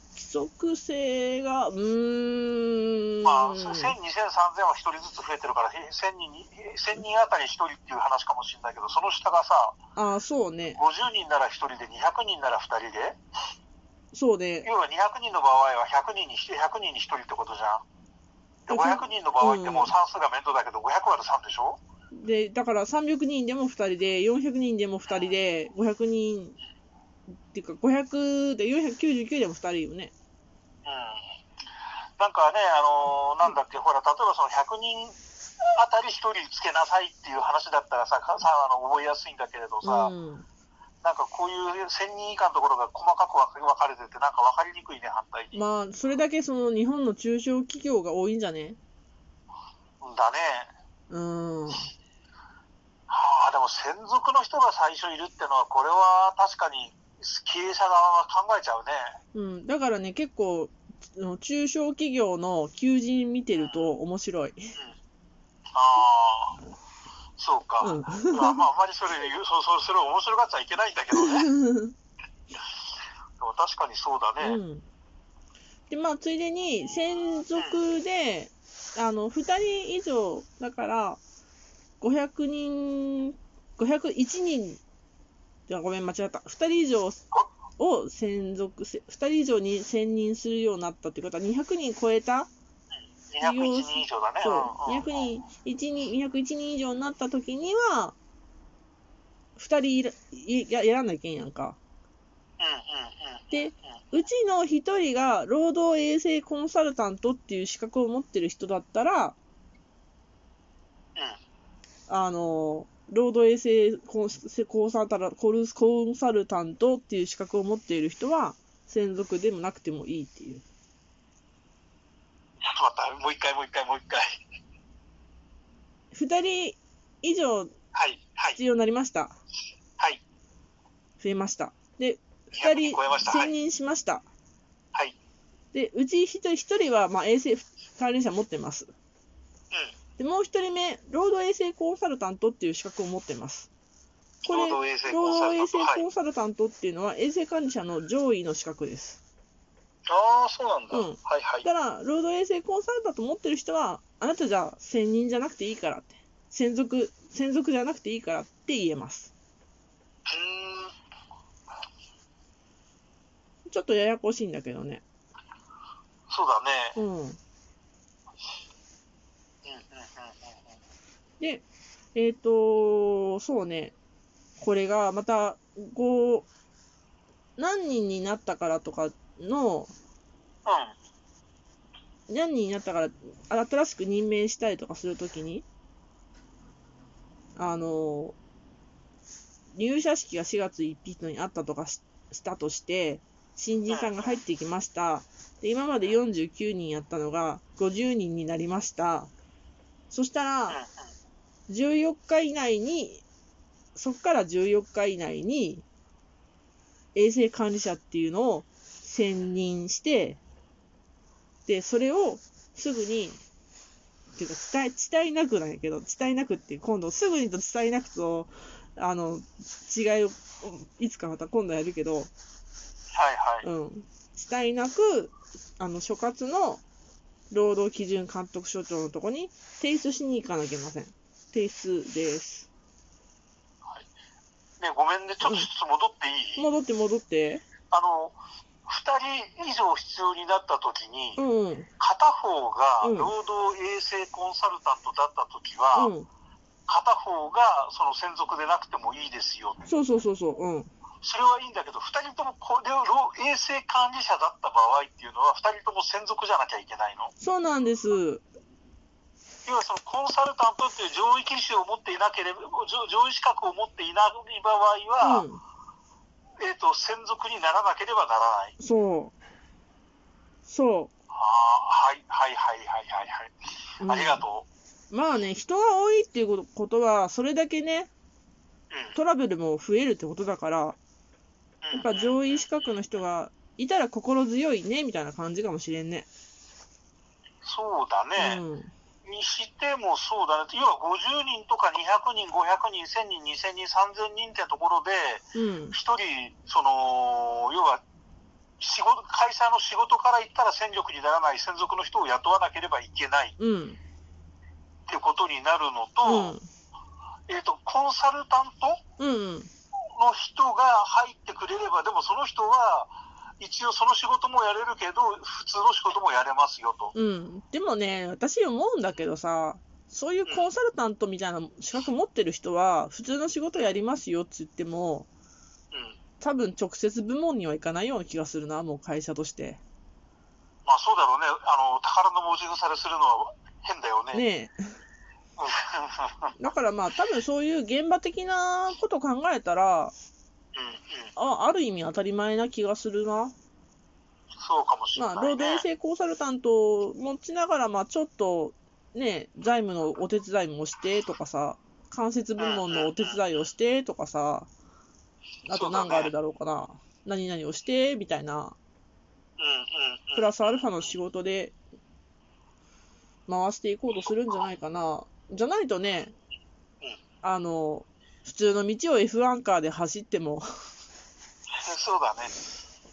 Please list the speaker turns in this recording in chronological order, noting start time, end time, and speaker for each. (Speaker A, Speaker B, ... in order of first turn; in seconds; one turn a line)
Speaker A: 0.1-4.0
Speaker B: 3.2-9.8
Speaker A: 9.9-10.8
Speaker B: 10.7-13.2
Speaker A: 14.1-14.7
Speaker B: 14.6-17.8
Speaker B: 18.7-21.8
Speaker A: 18.7-19.9
Speaker A: 22.1-26.6
Speaker B: 25.1-25.3
Speaker A: 27.5-30.1
Speaker B: 30.8-31.2
Speaker B: 32.2-35.2
Speaker B: 35.8-40.1
Speaker A: 39.8-40.5
Speaker B: 41.0-45.6
Speaker A: 45.5-48.8
Speaker B: 50.0-50.7
Speaker A: 51.1-51.9
Speaker B: 53.1-59.1
Speaker A: 59.3-64.8
Speaker B: 63.5-63.9
Speaker B: 65.7-66.6
Speaker B: 67.4-71.5
Speaker A: 67.8-68.6
Speaker A: 71.1-71.9
Speaker B: 73.4-74.6
Speaker A: 74.4-74.9
Speaker A: 75.9-81.2
Speaker A: 82.0-84.8
Speaker A: 85.7-87.2
Speaker A: 87.8-92.5
Speaker B: 93.3-95.2
Speaker A: 93.4-98.2
Speaker A: 99.6-101.8
Speaker B: 102.6-103.7
Speaker A: 103.5-109.4
Speaker A: 112.1-120.6
Speaker B: 122.6-124.3
Speaker A: 126.1-127.7
Speaker B: 127.9-128.6
Speaker A: 128.5-129.4
Speaker A: 131.2-134.2
Speaker B: 132.5-133.5
Speaker A: 135.7-138.9
Speaker A: 140.2-143.7
Speaker B: 144.4-146.1
Speaker A: 144.5-149.2
Speaker B: 150.1-151.7
Speaker A: 150.9-159.3
Speaker B: 160.3-160.9
Speaker A: 163.7-165.0
Speaker B: 166.3-167.0
Speaker A: 166.9-167.4
Speaker B: 169.6-170.8
Speaker A: 171.4-173.9
Speaker A: 174.6-176.5
Speaker A: 177.6-179.9
Speaker B: 180.7-180.9
Speaker A: 182.3-185.7
Speaker A: 187.6-188.4
Speaker A: 189.7-199.3
Speaker B: 193.9-194.4
Speaker A: 200.1-200.8
Speaker B: 200.7-201.1
Speaker A: 201.7-203.2
Speaker A: 203.9-205.8
Speaker A: 207.2-210.4
Speaker A: 211.7-213.4
Speaker A: 214.3-222.3
Speaker B: 223.1-223.7
Speaker A: 223.6-226.8
Speaker A: 227.5-232.7
Speaker B: 234.8-236.7
Speaker A: 235.4-235.7
Speaker A: 236.6-237.6
Speaker B: 237.9-241.4
Speaker A: 241.4-241.9
Speaker B: 242.0-246.1
Speaker A: 243.0-243.3
Speaker A: 245.9-246.3
Speaker B: 246.9-249.9
Speaker A: 249.9-250.9
Speaker B: 251.2-257.3
Speaker A: 257.4-258.4
Speaker B: 259.6-265.4
Speaker A: 265.2-265.6
Speaker B: 266.6-268.7
Speaker A: 268.8-269.3
Speaker A: 270.6-271.1
Speaker B: 271.3-274.7
Speaker A: 274.0-274.4
Speaker A: 275.1-278.1
Speaker B: 278.9-279.2
Speaker A: 279.1-281.0
Speaker B: 281.8-282.7
Speaker A: 281.9-286.3
Speaker B: 287.6-288.6
Speaker A: 288.4-288.9
Speaker B: 289.2-298.0
Speaker A: 295.5-295.9
Speaker B: 298.8-303.6
Speaker A: 303.6-304.0
Speaker B: 305.1-306.6
Speaker A: 306.2-306.6
Speaker B: 307.5-309.0
Speaker A: 309.2-309.7
Speaker B: 310.1-317.1
Speaker A: 317.1-325.3
Speaker B: 325.9-326.2
Speaker A: 326.4-329.8
Speaker B: 330.9-334.4
Speaker A: 334.3-334.8
Speaker B: 335.6-336.5
Speaker A: 336.6-340.1
Speaker B: 340.7-341.3
Speaker A: 341.4-343.5
Speaker B: 344.6-345.8
Speaker A: 345.1-354.7
Speaker B: 352.6-353.4
Speaker A: 355.7-358.8
Speaker B: 355.7-356.3
Speaker B: 359.6-360.9
Speaker A: 360.4-361.7
Speaker A: 363.5-366.3
Speaker A: 367.4-370.7
Speaker B: 371.7-372.5